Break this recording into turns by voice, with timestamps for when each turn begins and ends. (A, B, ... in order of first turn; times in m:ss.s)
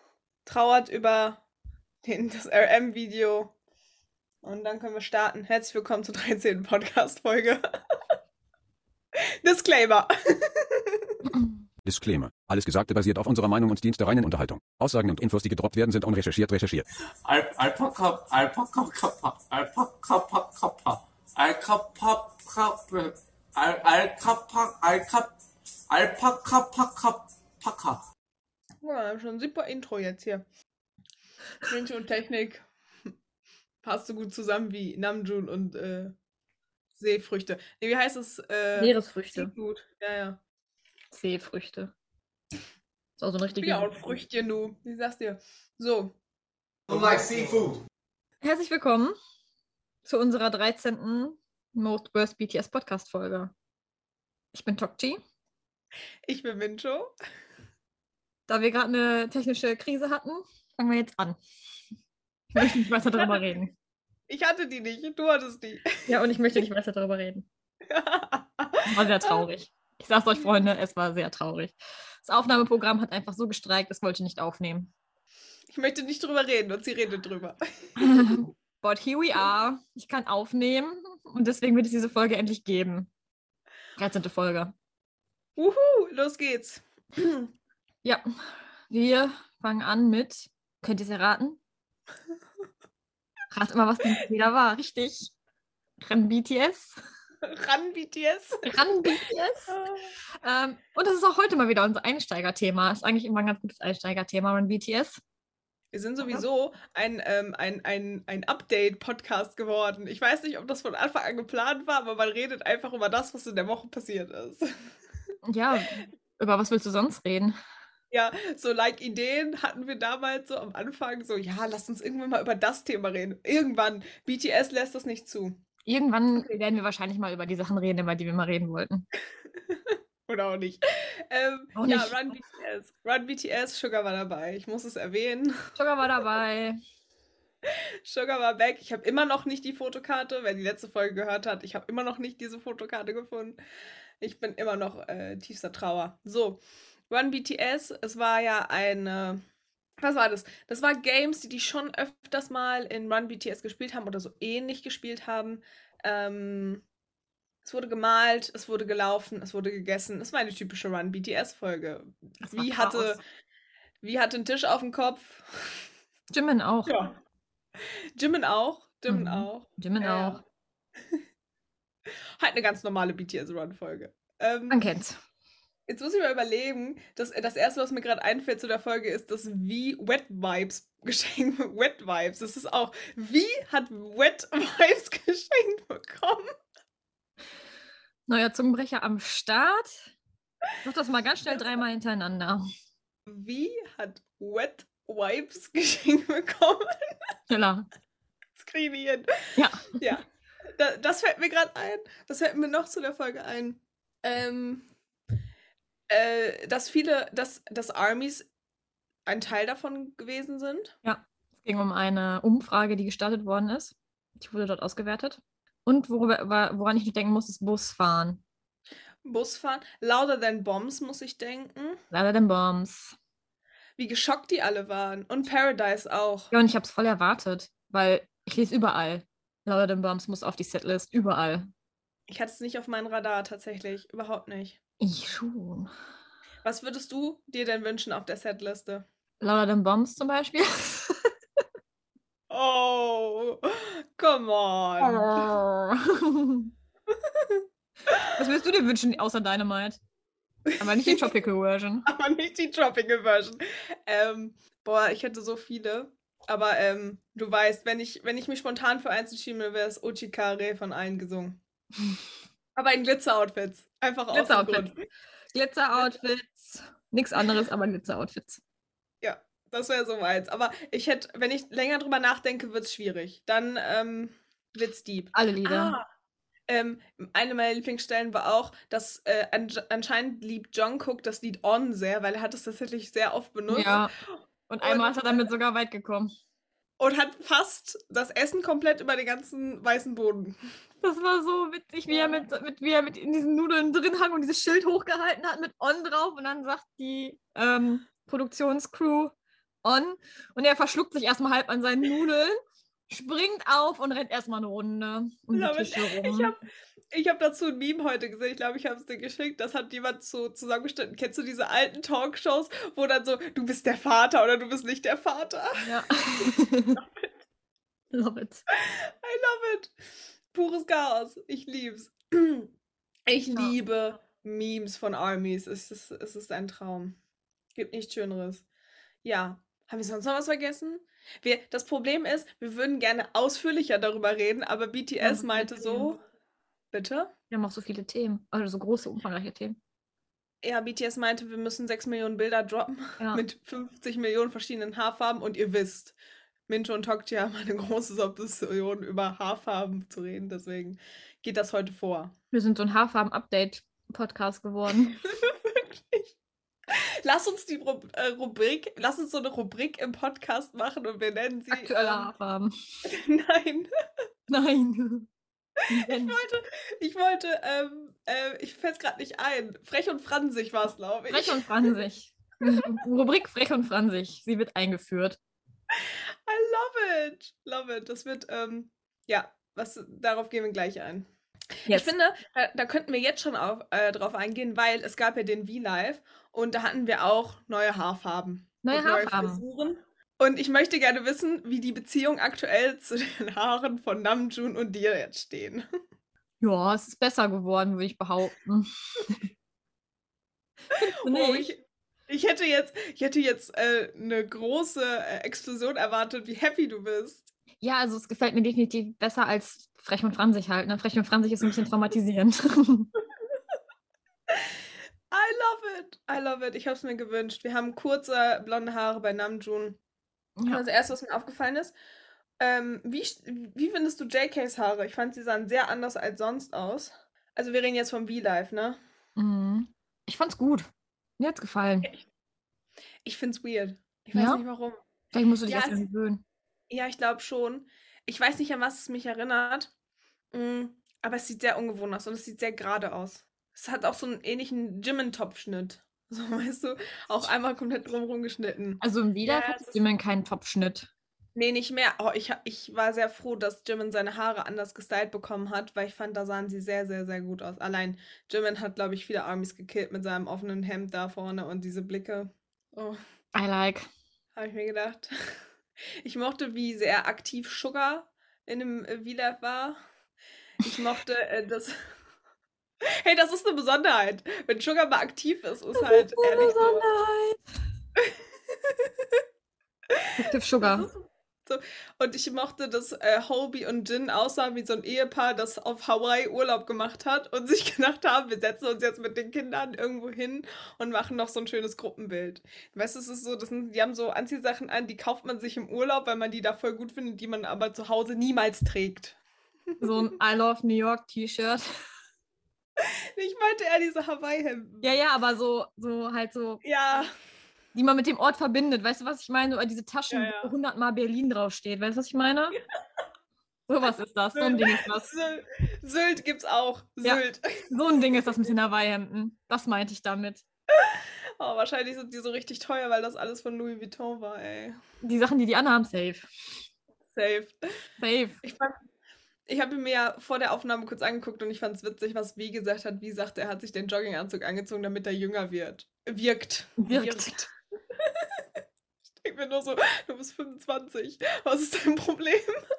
0:00.4-0:01.4 A
0:02.0-0:03.5 A
0:04.4-0:07.6 A
0:09.2-0:11.2 A
0:11.2-0:11.6 B
0:11.9-0:16.8 C
0:17.2-0:25.3 D
0:25.9-0:28.0 D
0:28.8-0:30.4 A
0:31.6-0:32.6 A
0:33.8-0:36.1 A
0:37.0-0:40.4 A
0:38.8-0:39.5 B
0:41.1-0:41.9 B
0:43.2-0:43.9 B
0:43.6-0:46.1 A
0:46.9-0:47.8 D
0:48.4-0:49.1 B
0:50.0-0:53.5 B
0:54.5-0:55.2 B
0:56.3-0:57.1 A
0:58.5-1:01.4 B
1:02.5-1:03.7 B
1:03.1-1:03.6 A
1:04.3-1:06.1 A
1:06.0-1:07.5 B
1:07.9-1:09.4 A
1:08.9-1:14.9 B
1:15.7-1:18.4 A
1:18.0-1:23.1 B
1:24.0-1:24.7 B
1:25.6-1:27.5 A
1:28.9-1:31.6 B
1:33.5-1:35.3 B
1:36.0-1:37.0 B
1:37.4-1:38.7 A
1:38.6-1:39.8 B
1:39.7-1:40.1 A
1:40.4-1:45.2 B
1:45.9-1:54.7 A
1:55.4-1:57.6 B
1:58.1-2:05.6 A
2:05.8-2:09.0 B
2:09.7-2:15.6 A
2:11.8-2:12.3 B
2:15.8-2:16.8 B
2:18.0-2:23.6 A
2:24.2-2:29.4 A
2:30.0-2:36.8 A
2:37.6-2:43.2 A
2:42.4-2:43.2 B
2:44.0-2:45.4 A
2:46.3-2:46.9 B
2:46.8-2:47.2 A
2:47.8-2:50.4 A
2:49.1-2:50.4 B
2:52.4-2:54.8 A
2:54.7-2:55.2 B
2:55.9-3:06.5 A
3:08.3-3:10.0 B
3:10.8-3:12.6 B
3:13.2-3:16.9 A
3:17.5-3:17.8 B
3:18.6-3:19.3 A
3:19.6-3:20.2 B
3:20.0-3:24.8 A
3:26.1-3:28.5 A
3:29.2-3:30.9 A
3:31.0-3:38.4 B
3:39.2-3:42.0 A
3:42.1-3:43.1 B
3:44.0-3:46.5 A
3:46.5-3:51.7 B
3:52.3-3:54.8 A
3:55.0-3:55.9 B
3:56.6-3:59.0 A
3:59.4-4:01.2 B
4:02.5-4:05.5 A
4:05.0-4:06.7 B
4:07.2-4:08.3 A
4:08.3-4:10.0 B
4:10.7-4:11.4 A
4:10.8-4:12.0 B
4:12.0-4:21.6 A
4:22.8-4:24.9 A
4:24.3-4:24.9 B
4:25.5-4:28.6 B
4:29.2-4:36.0 A
4:35.3-4:35.9 B
4:36.7-4:45.4 A
4:43.7-4:44.1 B
4:44.7-4:46.3 B
4:47.0-4:50.6 A
4:51.0-4:59.3 B
4:52.1-4:52.4 A
4:59.8-5:02.6 B
5:03.1-5:06.5 B
5:05.5-5:06.6 A
5:07.1-5:15.9 A
5:15.8-5:17.0 B
5:16.4-5:17.4 A
5:18.1-5:18.6 B
5:18.8-5:19.9 A
5:20.5-5:22.7 A
5:23.3-5:27.1 A
5:27.7-5:28.6 A
5:29.2-5:36.2 A
5:35.2-5:36.2 B
5:36.9-5:37.3 A
5:37.5-5:39.8 B
5:40.6-5:46.1 A
5:46.7-5:52.3 A
5:52.5-5:55.2 B
5:55.3-5:56.3 A
5:56.9-6:02.3 A
6:01.7-6:02.7 B
6:03.0-6:03.9 A
6:04.5-6:05.3 B
6:05.9-6:11.9 A
6:05.9-6:06.4 B
6:11.3-6:15.4 B
6:16.0-6:21.3 A
6:21.8-6:35.8 A
6:21.9-6:22.1 B
6:28.8-6:29.6 B
6:36.6-6:39.4 B
6:40.9-6:41.7 B
6:41.2-6:47.5 A
6:47.8-6:53.1 B
6:55.3-7:00.0 A
7:00.6-7:00.8 B
7:00.7-7:01.9 A
7:02.6-7:09.0 A
7:09.4-7:12.1 B
7:13.2-7:15.0 A
7:14.3-7:14.6 B
7:15.3-7:16.4 B
7:15.7-7:16.0 A
7:16.9-7:19.9 A
7:20.5-7:30.0 A
7:29.0-7:31.1 B
7:31.6-7:43.2 A
7:43.5-7:44.0 B
7:44.6-7:45.3 A
7:46.2-7:50.0 A
7:50.8-7:52.0 A
7:53.2-7:57.1 A
7:56.0-7:57.6 B
8:00.1-8:19.4 A
8:00.4-8:01.1 B
8:20.0-8:21.8 B
8:23.0-8:25.1 A
8:25.0-8:27.3 B
8:26.8-8:27.3 A
8:27.9-8:32.8 B
8:30.3-8:30.7 A
8:33.9-8:35.3 B
8:34.5-8:38.6 A
8:37.2-8:40.6 B
8:41.0-8:45.0 A
8:45.2-8:46.4 B
8:47.3-8:47.8 A
8:48.2-8:48.6 B
8:48.6-8:49.0 A
8:49.7-8:57.7 A
8:57.0-8:57.6 B
8:59.4-9:02.7 A